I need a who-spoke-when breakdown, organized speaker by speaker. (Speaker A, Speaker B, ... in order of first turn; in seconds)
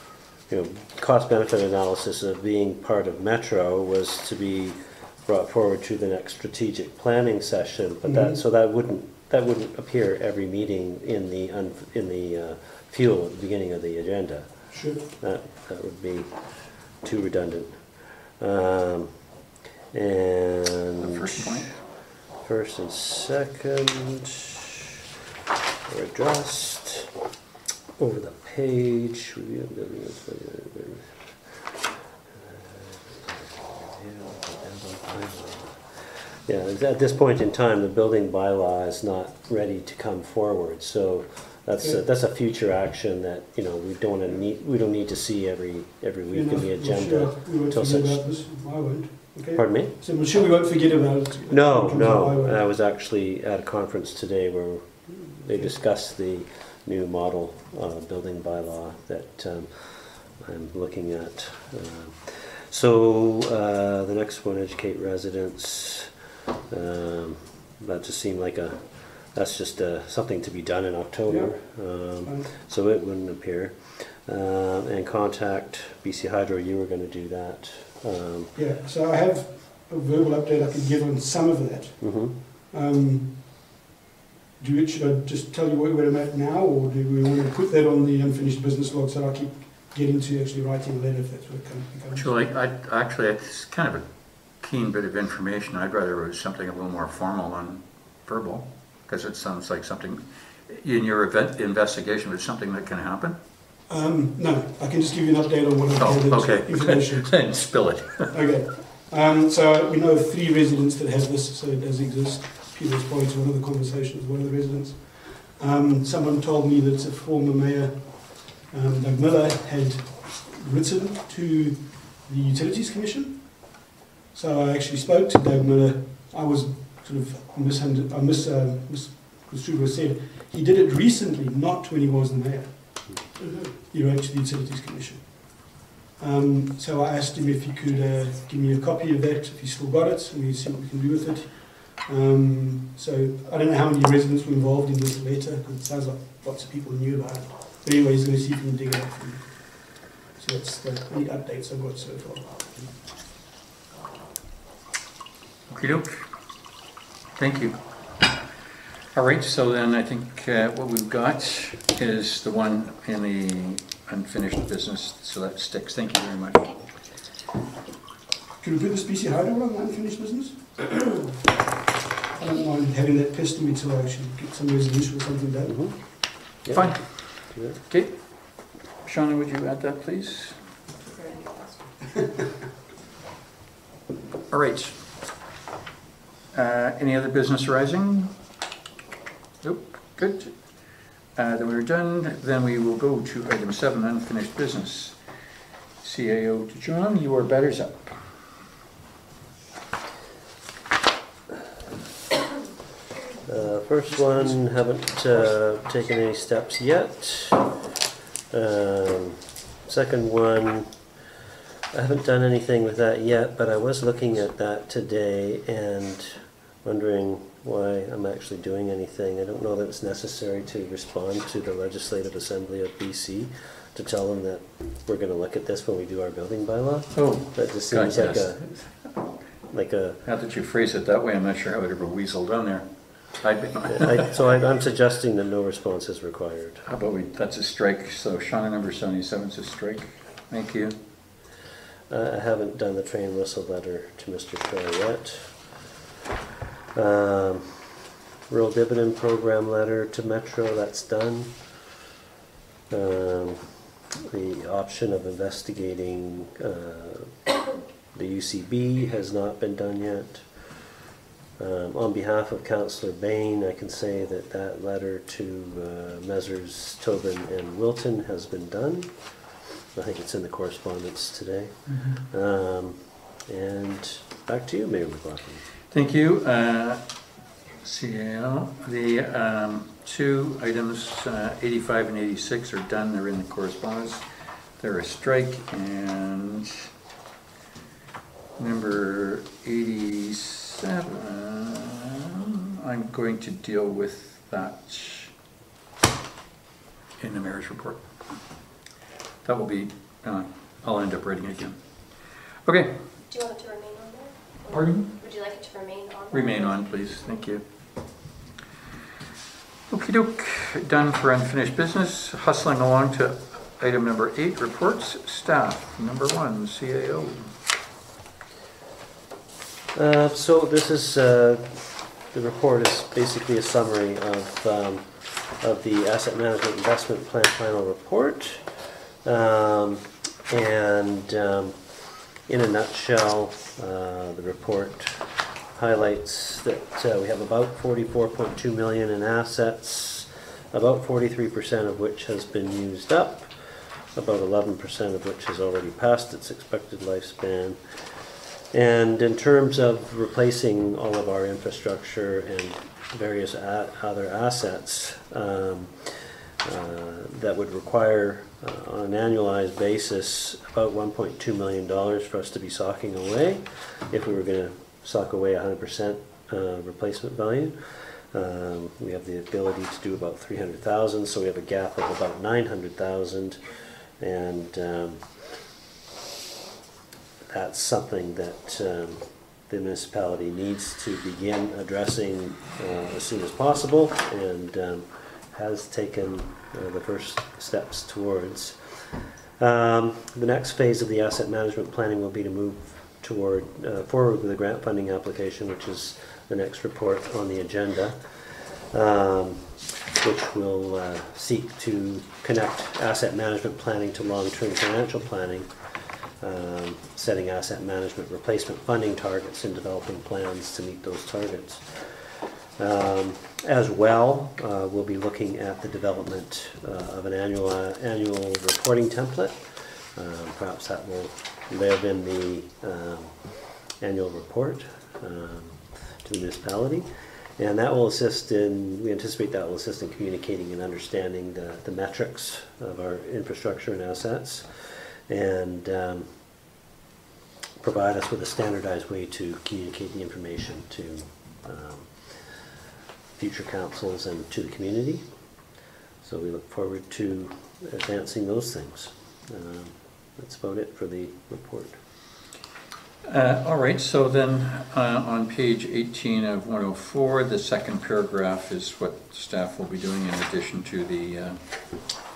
Speaker A: 0.5-19.2, 19.9-21.6, 22.4-24.6, 25.9-27.1, 28.0-31.6, 32.3-48.3, 49.5-50.4, 51.5-66.1, 66.7-78.5, 82.0-82.3, 175.7-177.8, 203.5-207.7, 208.5-211.0, 211.9-228.7, 229.7-230.2, 233.9-236.8, 242.1-245.9, 246.9-247.9, 248.5-251.9, 252.9-257.4, 258.1-260.7, 261.6-275.6, 319.9-375.4, 377.5-436.3, 437.8-442.7, 443.4-445.3, 446.2-452.0
Speaker B: 8.1-8.4, 14.7-15.0, 46.3-52.6, 71.3-72.5, 78.5-83.7, 84.6-92.3, 103.9-107.4, 108.3-152.9, 168.6-171.2, 172.4-176.0, 271.9-272.2
Speaker C: 21.0-21.8, 92.1-103.4, 105.9-108.3, 155.7-156.2, 157.4-157.8, 159.1-166.8, 176.7-180.6, 184.5-185.0, 186.5-188.3, 189.6-195.2, 196.0-198.2, 227.1-228.9, 230.2-234.3, 236.9-240.9, 275.9-277.0, 277.8-284.2, 284.8-286.9, 288.6-295.3, 297.2-298.4, 299.4-303.1, 304.7-305.2, 306.3-307.6, 309.9-317.5, 453.2-461.6
Speaker D: 181.1-181.8, 303.3-307.4